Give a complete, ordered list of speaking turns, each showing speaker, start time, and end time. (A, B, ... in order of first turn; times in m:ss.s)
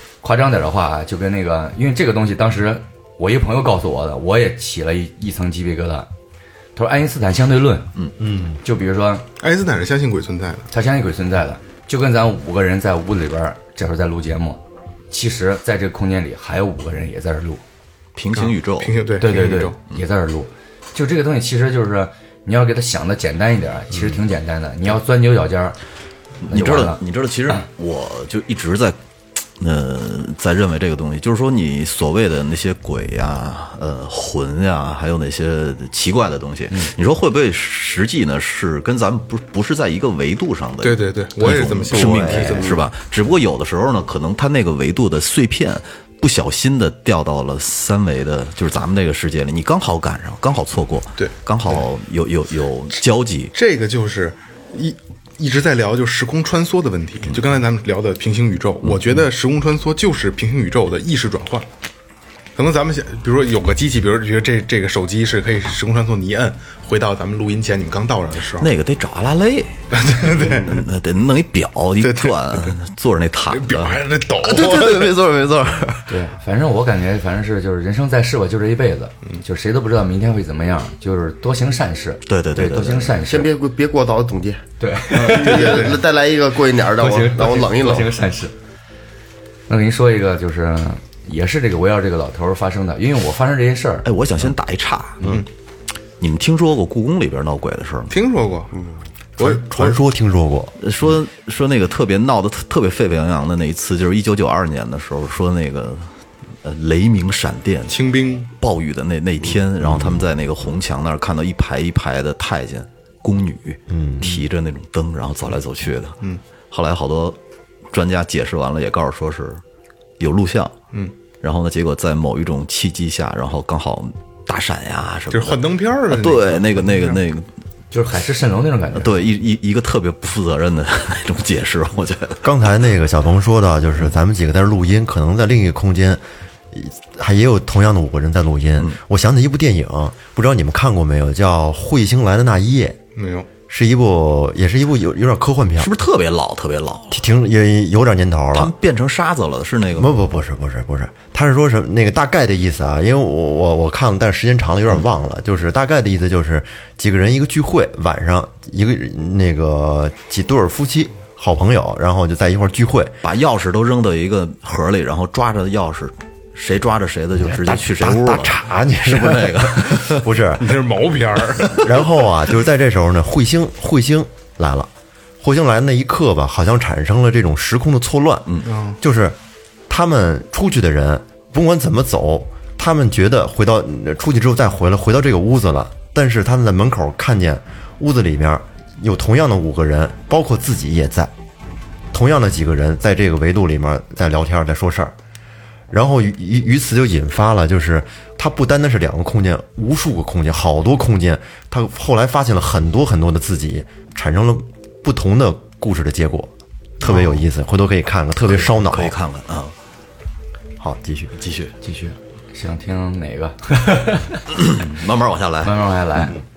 0:00.2-0:06.1 A
0:06.8-0:07.9 A
0:08.2-0:08.6 B
0:08.6-0:09.3 A
0:09.4-0:10.7 C
0:10.7-0:17.6 A
0:18.2-0:19.0 D
0:18.4-0:19.8 C
0:19.2-0:25.8 A
0:26.5-0:29.0 D
0:26.5-0:27.6 A
0:29.6-0:53.5 D
0:40.8-0:42.8 C
0:41.4-0:42.8 B
0:51.2-0:51.9 C
0:53.5-1:01.7 C
0:58.8-0:59.3 D
1:02.6-1:08.7 C
1:08.6-1:16.1 D
1:09.9-1:10.8 C
1:12.0-1:12.8 C
1:13.5-1:15.0 C
1:16.1-1:23.5 A
1:22.3-1:23.2 D
1:23.2-1:24.6 E
1:24.8-1:26.0 A
1:25.2-1:28.1 E
1:25.2-1:26.0 C
1:27.0-1:28.5 A
1:29.7-1:34.1 A
1:34.0-1:35.4 D
1:36.2-1:38.1 D
1:38.1-1:38.8 C
1:39.4-1:40.0 C
1:39.4-1:40.8 B
1:40.8-1:48.0 D
1:47.9-1:48.5 C
1:48.6-1:56.2 D
1:49.8-1:50.3 B
1:53.9-1:54.4 B
1:56.7-1:57.4 D
1:57.9-1:59.6 D
2:00.2-2:00.7 D
2:01.4-2:07.5 D
2:05.3-2:07.2 C
2:07.9-2:09.3 A
2:08.9-2:12.4 D
2:12.4-2:23.0 B
2:23.2-2:23.5 C
2:23.7-2:25.9 B
2:25.8-2:27.3 D
2:27.1-2:28.7 B
2:28.5-2:30.2 D
2:30.0-2:43.1 B
2:43.2-2:50.3 D
2:47.4-2:50.8 B
2:50.6-2:51.8 C
2:51.7-2:59.4 B
2:58.6-2:59.0 C
2:59.9-3:11.3 B
3:12.1-3:15.2 B
3:15.9-3:29.2 B
3:28.4-3:29.8 D
3:30.8-3:31.4 B
3:31.4-3:31.8 D
3:31.8-3:34.4 A
3:34.6-3:35.8 D
3:35.6-3:36.4 A